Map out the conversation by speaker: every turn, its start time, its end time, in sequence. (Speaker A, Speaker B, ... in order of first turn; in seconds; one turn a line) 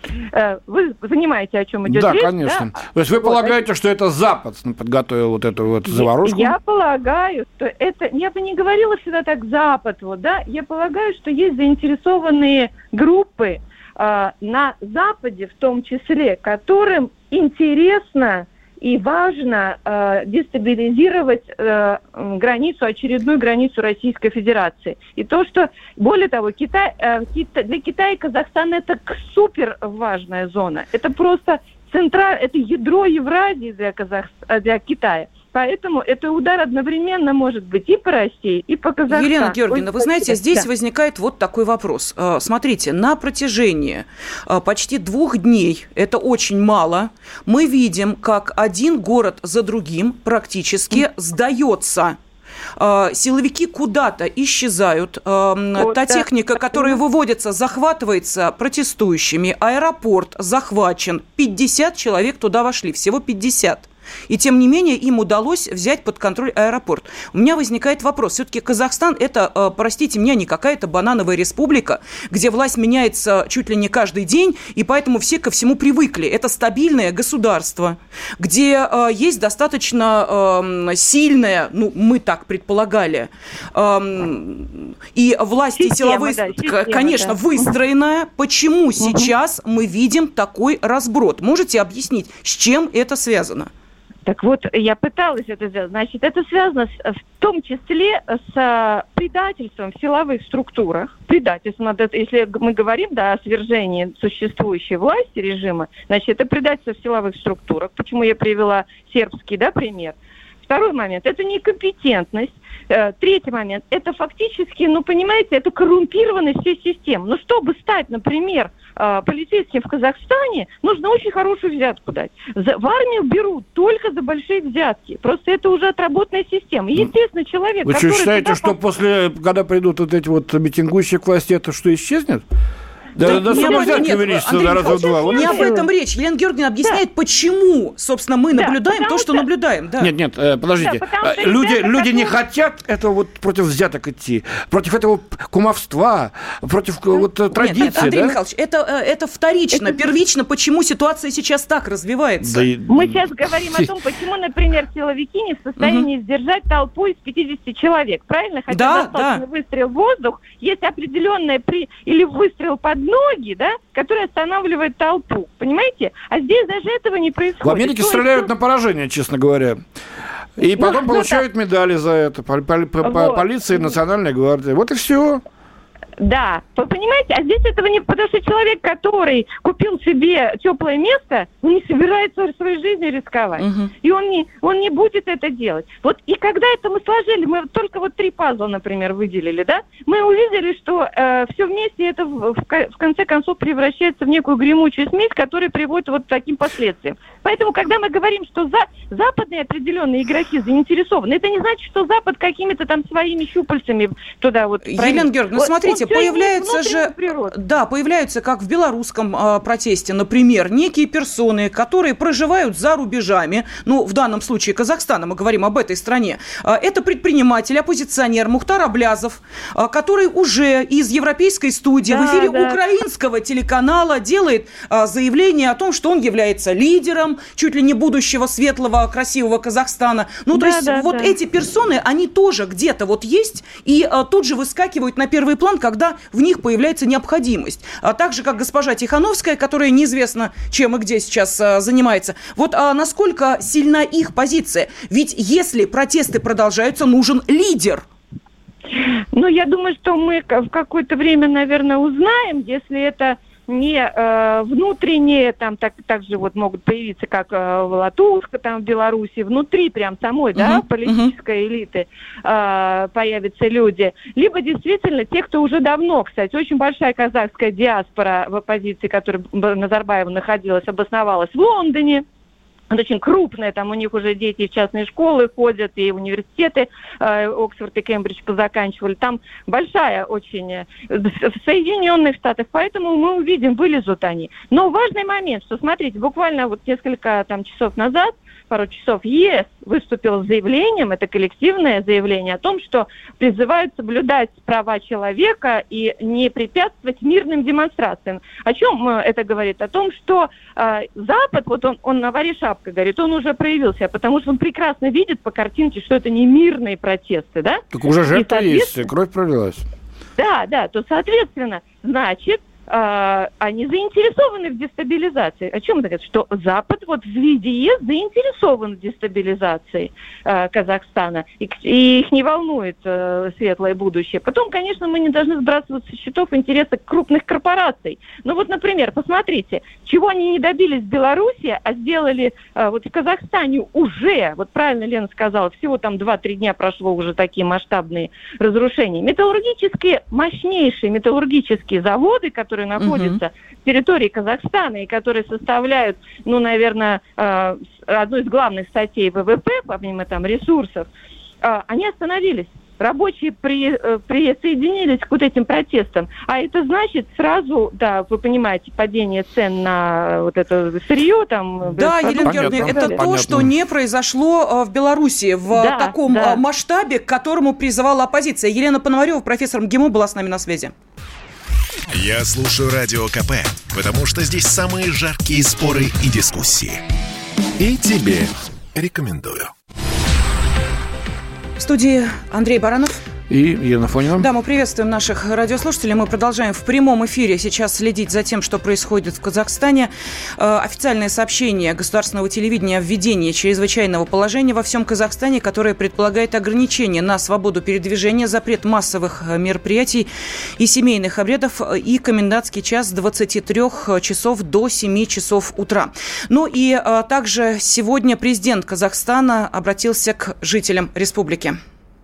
Speaker A: 0.3-3.6
Speaker B: 1.8-6.5
Speaker A: 5.9-40.6
Speaker C: 39.1-52.2
Speaker C: 52.8-93.7
Speaker A: 55.8-57.0
Speaker A: 85.8-87.7
Speaker A: 89.0-89.3
Speaker A: 94.2-128.7
Speaker B: 127.8-132.4
Speaker B: 133.2-135.7
Speaker A: 133.2-135.9
Speaker C: 133.2-140.1
Speaker A: 138.5-139.4
Speaker B: 140.0-148.3
Speaker A: 140.8-142.3
Speaker C: 147.5-152.7
Speaker A: 147.9-148.2
Speaker A: 149.8-150.0
Speaker B: 152.4-153.9
Speaker A: 152.9-168.5
Speaker C: 155.8-156.1
Speaker C: 158.7-159.4
Speaker B: 167.6-169.8
Speaker B: 170.6-175.4
Speaker A: 170.8-171.4
Speaker A: 173.0-173.4
Speaker A: 176.2-207.5
Speaker C: 183.6-183.9
Speaker C: 204.8-248.0
Speaker A: 222.0-222.8
Speaker A: 230.5-231.4
Speaker A: 249.3-272.2
Speaker C: 260.5-261.3
Speaker A: 272.9-309.0
Speaker B: 307.9-309.8
Speaker A: 310.4-351.1
Speaker C: 343.0-343.4
Speaker A: 351.6-363.2
Speaker C: 361.9-370.9
Speaker B: 362.4-363.7
Speaker A: 365.7-366.6
Speaker D: 372.1-377.0
Speaker D: 377.8-379.7
Speaker C: 381.8-383.2
Speaker B: 383.5-384.5
Speaker C: 384.4-411.8